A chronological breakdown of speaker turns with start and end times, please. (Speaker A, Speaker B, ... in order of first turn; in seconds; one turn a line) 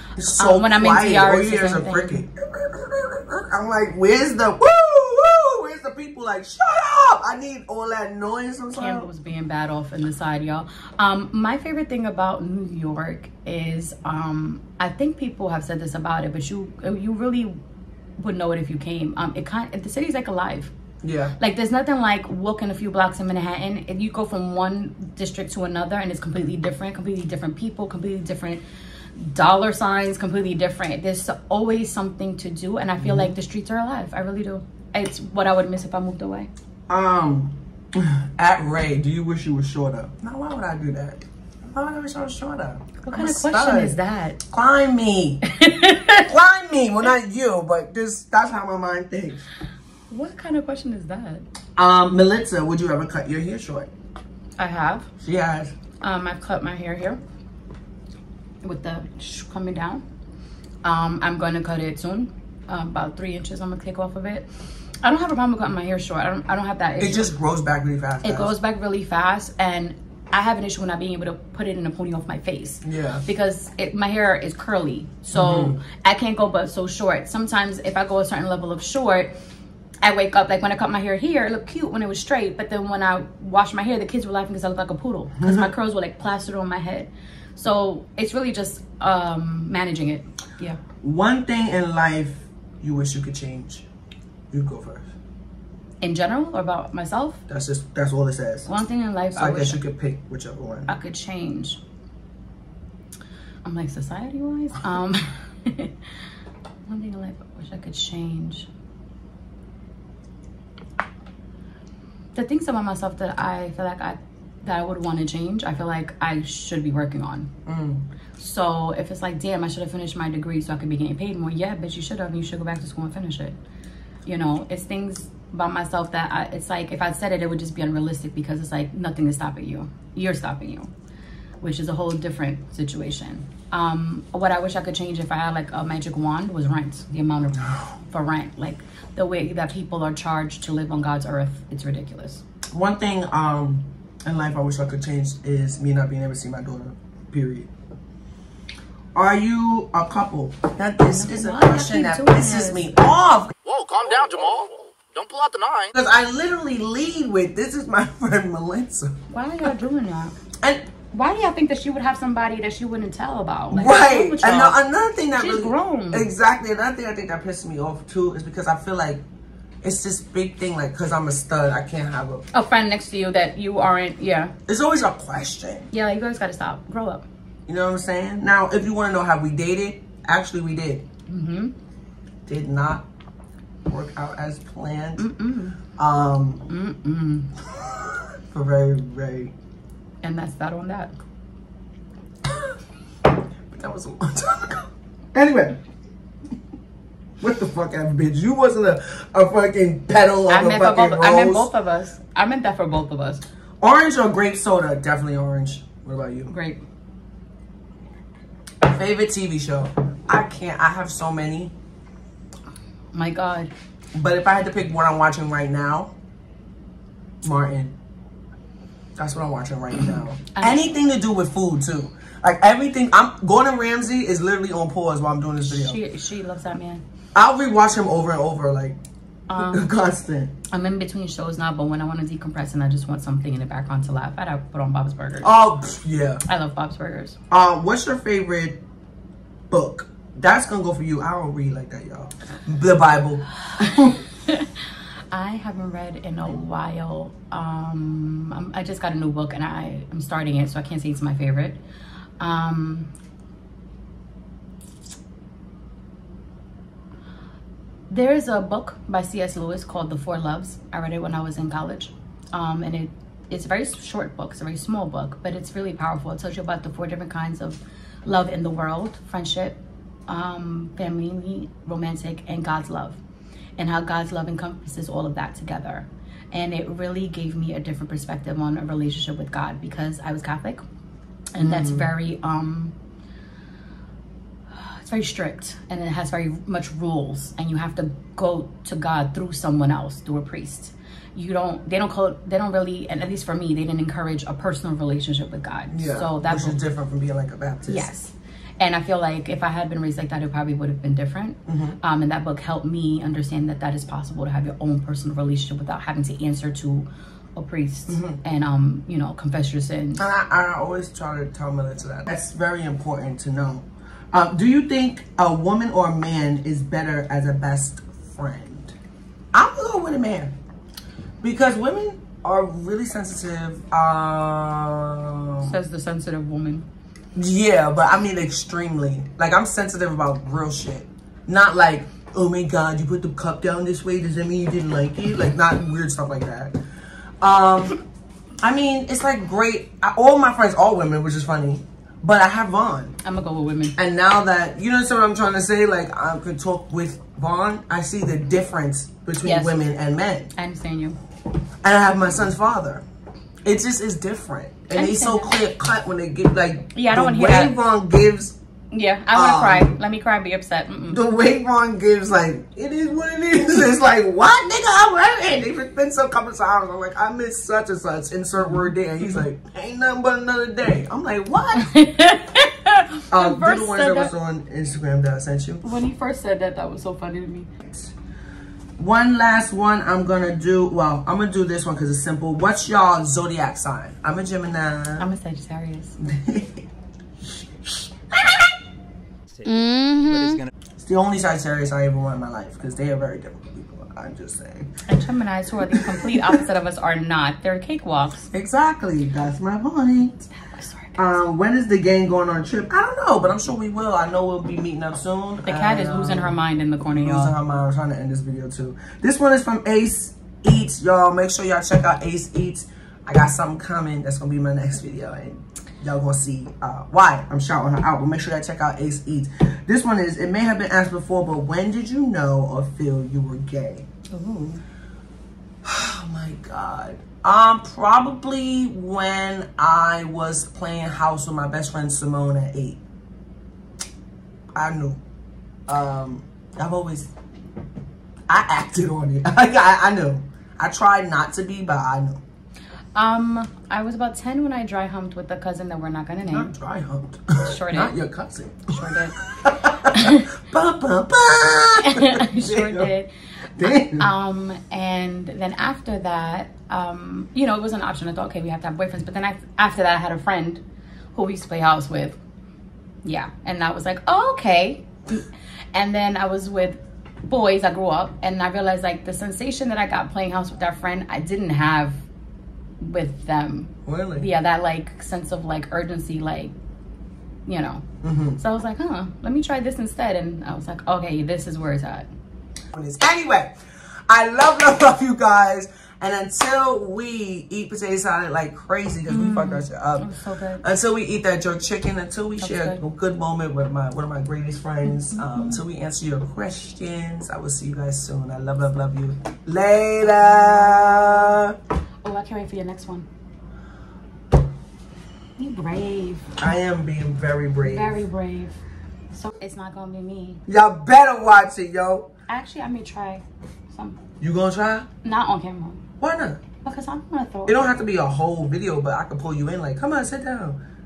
Speaker A: 0.2-9.1
Speaker B: 0.4-2.2
Speaker B: 8.8-17.6
Speaker B: 18.2-20.7
Speaker A: 21.0-21.4
Speaker B: 21.4-28.6
Speaker B: 29.2-36.5
Speaker A: 33.0-33.3
Speaker A: 36.9-44.0
Speaker B: 43.0-44.4
Speaker A: 44.5-45.4
Speaker B: 45.4-46.3
Speaker A: 46.2-49.5
Speaker B: 50.1-51.5
Speaker A: 51.8-53.9
Speaker B: 54.6-55.1
Speaker A: 55.2-55.7
Speaker B: 56.0-57.2
Speaker B: 58.6-60.0
Speaker B: 60.8-64.5
Speaker B: 65.0-67.3
Speaker A: 67.0-68.5
Speaker B: 68.2-79.3
Speaker A: 72.8-73.2
Speaker A: 75.3-75.8
Speaker B: 80.0-90.8
Speaker A: 85.4-85.7
Speaker A: 91.0-93.9
Speaker A: 94.5-95.1
Speaker B: 96.0-97.4
Speaker A: 97.5-98.7
Speaker B: 98.7-99.8
Speaker A: 99.4-100.9
Speaker B: 100.9-101.8
Speaker B: 103.6-106.0
Speaker B: 106.9-108.7
Speaker B: 112.3-117.5
Speaker A: 117.7-118.0
Speaker B: 118.4-123.6
Speaker B: 124.2-130.9
Speaker B: 131.6-142.4
Speaker A: 142.7-147.7
Speaker A: 149.2-153.5
Speaker B: 151.1-153.0
Speaker C: 153.7-155.9
Speaker A: 155.9-159.2
Speaker B: 159.3-160.4
Speaker A: 160.6-160.8
Speaker B: 161.1-164.8
Speaker A: 163.7-169.2
Speaker B: 165.3-166.3
Speaker A: 169.8-172.5
Speaker B: 172.5-174.6
Speaker A: 174.7-175.9
Speaker B: 175.9-177.3
Speaker A: 177.7-181.1
Speaker B: 181.3-181.7
Speaker A: 182.5-183.1
Speaker A: 183.9-185.3
Speaker B: 185.2-185.8
Speaker A: 186.0-186.7
Speaker B: 186.7-187.5
Speaker A: 187.7-189.5
Speaker B: 190.2-191.2
Speaker A: 192.5-192.8
Speaker A: 193.7-195.8
Speaker A: 197.4-201.7
Speaker B: 200.5-203.4
Speaker A: 203.8-206.5
Speaker B: 206.5-206.8
Speaker A: 208.8-211.7
Speaker B: 213.1-213.7
Speaker A: 214.2-216.1
Speaker A: 217.4-217.9
Speaker A: 219.2-226.0
Speaker B: 220.5-220.9
Speaker B: 225.7-227.0
Speaker A: 227.3-229.0
Speaker B: 229.5-229.9
Speaker A: 229.6-230.5
Speaker B: 230.7-235.5
Speaker A: 235.4-236.4
Speaker B: 236.5-237.4
Speaker A: 237.5-238.8
Speaker A: 239.7-244.2
Speaker B: 243.7-244.7
Speaker B: 245.3-251.8
Speaker B: 252.4-253.1
Speaker B: 258.1-273.2
Speaker B: 273.8-280.8
Speaker B: 281.5-282.9
Speaker A: 281.6-282.1
Speaker B: 284.7-296.8
Speaker A: 295.9-298.1
Speaker B: 297.9-310.2
Speaker A: 301.7-302.0
Speaker A: 308.1-308.4
Speaker A: 310.2-318.9
Speaker A: 319.5-320.5
Speaker A: 321.4-325.8
Speaker B: 325.6-326.9
Speaker A: 327.4-336.8
Speaker A: 337.4-338.0
Speaker A: 338.6-343.2
Speaker B: 343.2-343.9
Speaker A: 344.0-350.5
Speaker B: 349.4-349.8
Speaker B: 350.6-351.2
Speaker A: 351.8-353.1
Speaker A: 353.6-358.6
Speaker B: 354.9-355.6
Speaker B: 356.9-357.8
Speaker B: 358.9-361.2
Speaker A: 359.3-359.9
Speaker A: 361.1-371.9
Speaker B: 368.6-368.9
Speaker B: 371.8-374.3
Speaker A: 373.3-375.8
Speaker B: 375.8-377.7
Speaker A: 377.8-378.1
Speaker A: 379.0-385.3
Speaker B: 385.2-386.2
Speaker A: 386.2-386.8
Speaker B: 389.6-390.6
Speaker A: 391.0-394.9
Speaker B: 395.1-398.5
Speaker A: 395.9-396.4
Speaker A: 398.5-400.5
Speaker B: 400.6-401.3
Speaker A: 401.2-406.6
Speaker B: 405.6-407.6
Speaker A: 407.1-424.1
Speaker B: 424.3-424.8
Speaker A: 425.8-433.0
Speaker A: 434.7-435.2
Speaker A: 435.9-437.3
Speaker A: 438.5-442.4
Speaker B: 443.1-446.7
Speaker A: 446.5-453.1
Speaker B: 447.6-448.2
Speaker B: 448.9-449.4
Speaker B: 450.1-450.5
Speaker B: 452.0-460.8
Speaker A: 453.8-454.3
Speaker B: 461.3-462.4
Speaker B: 463.2-472.2
Speaker B: 473.0-476.7
Speaker A: 474.1-474.5
Speaker B: 477.7-478.1
Speaker A: 478.2-478.6
Speaker B: 478.6-482.3
Speaker A: 482.9-483.8
Speaker A: 484.3-490.3
Speaker B: 489.3-490.8
Speaker A: 490.8-501.8
Speaker B: 492.6-493.0
Speaker B: 495.2-495.8
Speaker B: 500.2-501.6
Speaker B: 502.2-503.3
Speaker B: 505.6-506.5
Speaker A: 506.6-508.2
Speaker B: 507.8-510.6
Speaker A: 510.7-512.3
Speaker B: 512.5-514.2
Speaker A: 514.4-515.1
Speaker B: 515.2-516.0
Speaker A: 516.2-516.6
Speaker B: 516.8-517.9
Speaker A: 517.7-520.8